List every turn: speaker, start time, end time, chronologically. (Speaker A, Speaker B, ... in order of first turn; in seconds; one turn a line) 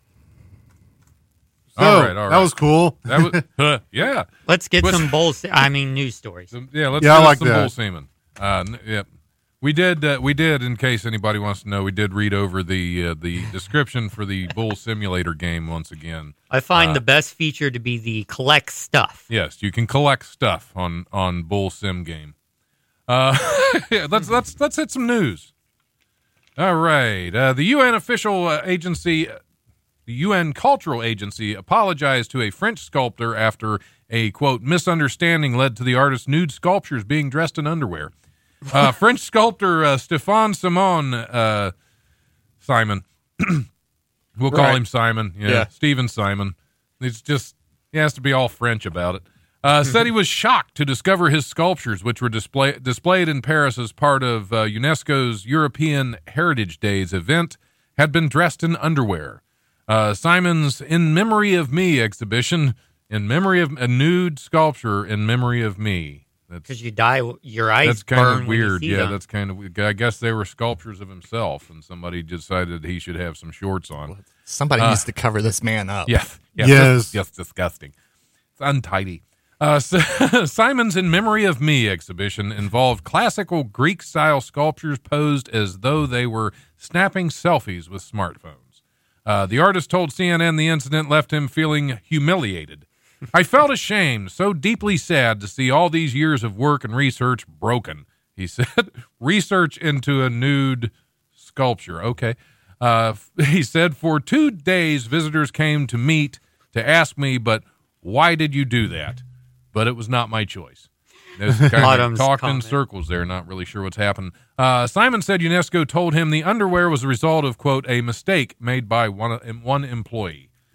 Speaker A: 1.8-2.5
Speaker B: 1.8-3.4
Speaker A: 3.1-4.3
Speaker C: 4.5-6.5
Speaker A: 4.8-5.1
Speaker A: 6.5-9.1
Speaker B: 7.0-7.7
Speaker A: 9.6-17.0
Speaker C: 16.5-19.2
Speaker A: 19.3-22.3
Speaker A: 23.1-25.5
Speaker A: 26.6-29.4
Speaker A: 30.1-38.1
Speaker A: 38.7-41.7
Speaker A: 42.6-43.7
Speaker A: 44.4-66.7
Speaker D: 44.5-44.8
Speaker C: 66.7-69.2
Speaker A: 67.8-74.2
Speaker D: 74.1-76.1
Speaker A: 74.8-75.0
Speaker A: 76.1-77.9
Speaker B: 76.6-77.2
Speaker A: 78.6-109.2
Speaker A: 109.7-120.5
Speaker C: 111.8-112.7